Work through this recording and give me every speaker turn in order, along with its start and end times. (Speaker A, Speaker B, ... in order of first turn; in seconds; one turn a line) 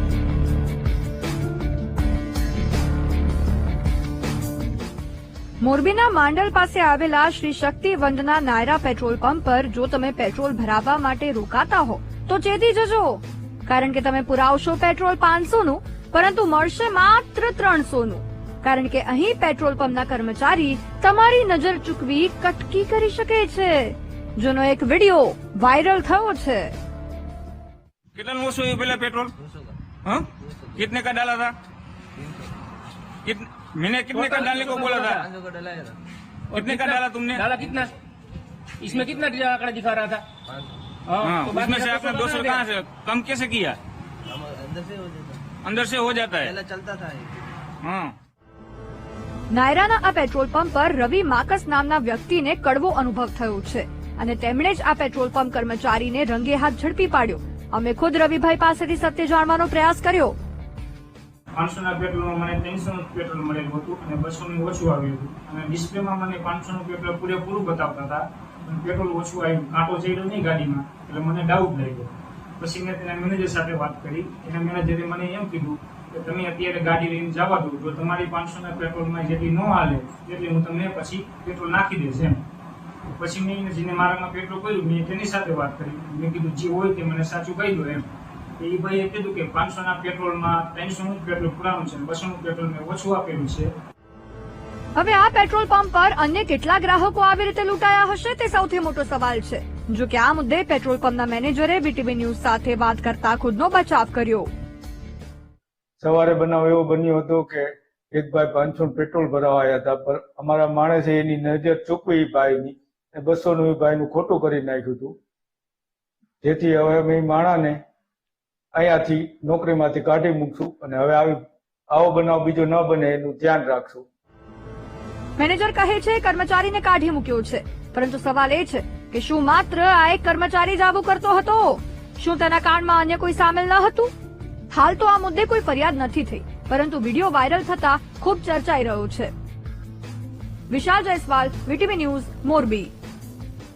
Speaker A: 5.6-26.7
Speaker B: 28.1-29.3
Speaker C: 29.4-29.8
Speaker B: 30.0-31.6
Speaker C: 30.4-30.8
Speaker C: 32.1-32.5
Speaker B: 33.2-35.2
Speaker D: 34.1-34.9
Speaker C: 34.5-36.0
Speaker D: 36.5-37.9
Speaker B: 36.5-37.5
Speaker D: 38.8-40.3
Speaker C: 40.5-40.8
Speaker D: 41.1-42.7
Speaker B: 41.2-43.8
Speaker C: 44.2-45.5
Speaker B: 45.6-46.5
Speaker C: 46.4-47.5
Speaker B: 47.8-48.1
Speaker A: 49.5-60.4
Speaker E: 61.5-82.4
Speaker E: 83.1-88.1
Speaker E: 88.6-93.7
Speaker A: 94.9-104.5
Speaker F: 106.0-115.2
Speaker F: 116.4-117.8
Speaker F: 118.7-121.4
Speaker F: 121.9-124.0
Speaker A: 125.4-134.1
Speaker A: 134.7-139.3
Speaker A: 140.7-142.9